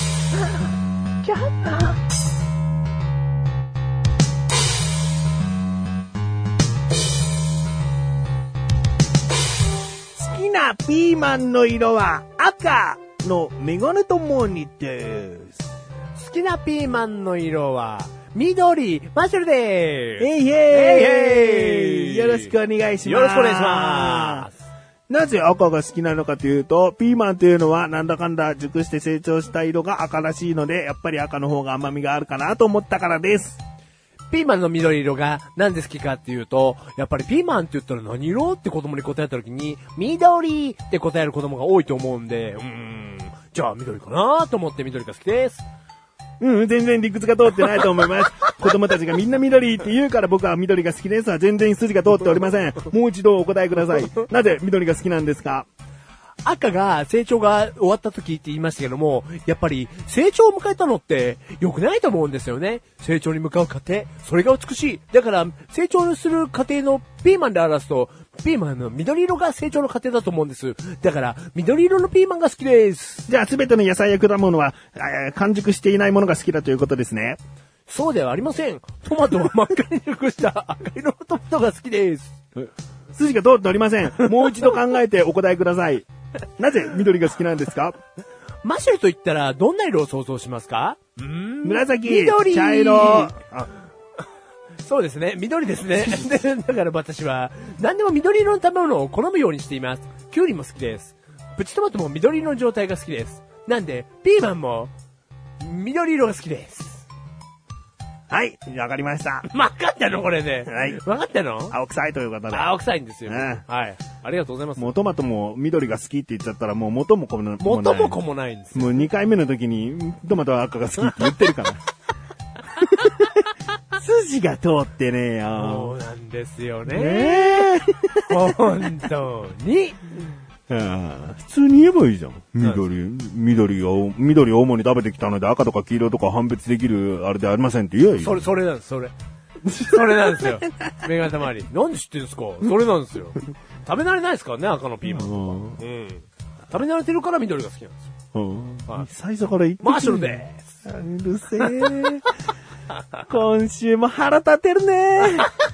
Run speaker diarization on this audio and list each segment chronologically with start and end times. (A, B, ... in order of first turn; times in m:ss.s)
0:01.2-0:02.0 A
0:10.1-0:15.7 B
0:16.1-0:22.5 A
0:20.2-0:24.5 B
0:23.0-0:24.6 A
0:25.1-0:33.6 B
0:34.3-0:45.6 A
0:46.4-0:55.7 B
0:56.4-1:13.2 A
1:13.3-1:17.4 B
1:17.9-1:22.4 A
1:22.6-1:26.0 B
1:26.6-1:28.0 B
1:28.6-1:33.3 A
1:31.6-1:33.7 B
1:34.8-1:44.9 A
1:45.6-1:47.1 A
1:48.3-1:49.5 B
1:49.4-1:51.8 A
1:50.6-1:51.0 B
1:51.7-1:52.7 B
1:52.5-1:54.9 A
1:53.2-1:53.6 B
1:54.8-1:58.2 B
1:57.6-1:59.0 A
1:58.7-2:01.9 B
2:02.7-2:03.4 B
2:03.9-2:05.9 B
2:05.6-2:07.7 A
2:06.9-2:08.6 B
2:08.3-2:10.2 A
2:10.7-2:18.4 B
2:18.2-2:19.1 A
2:19.6-2:20.6 B
2:19.7-2:28.0 A
2:25.0-2:25.8 B
2:28.3-2:32.2 B
2:29.8-2:30.7 A
2:33.2-2:35.5 B